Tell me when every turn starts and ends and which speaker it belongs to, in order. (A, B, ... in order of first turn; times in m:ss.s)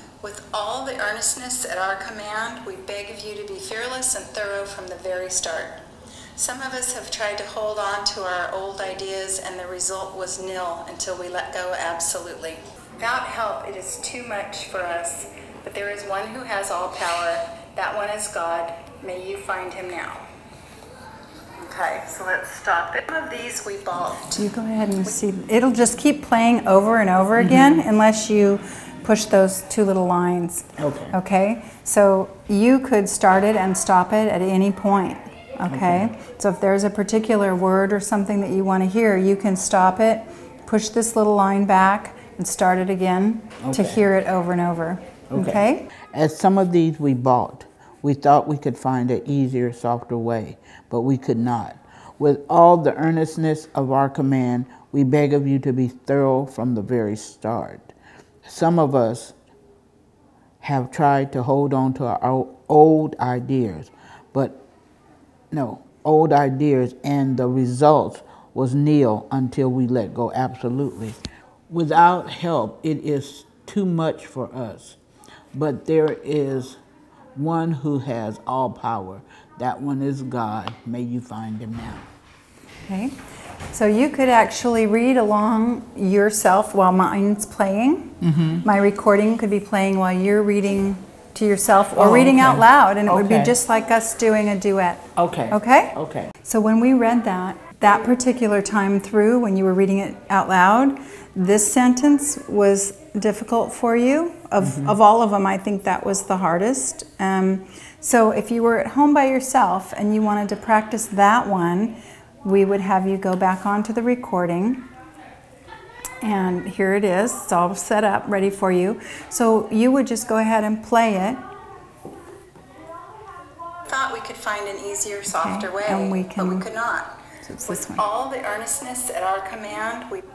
0:00.2-0:05.8 A
0:06.4-0:20.0 A
0:19.7-0:20.2 B
0:21.6-0:24.4 A
0:24.4-0:45.9 B
0:27.4-0:27.8 C
0:30.8-0:31.2 C
0:35.7-0:36.1 C
0:43.6-0:44.0 C
0:45.3-0:59.3 C
1:00.6-1:04.6 C
1:05.5-1:11.2 C
1:11.7-1:15.0 C
1:15.5-1:16.8 C
1:17.4-1:22.0 C
1:22.9-1:23.1 B
1:23.7-1:54.8 B
1:28.2-1:28.6 C
1:32.0-1:33.5 C
1:35.2-1:36.3 C
1:44.6-1:45.0 C
1:56.2-2:01.4 B
2:03.9-2:07.1 A
2:05.3-2:06.7 B
2:07.4-2:08.0 B
2:07.7-2:10.2 A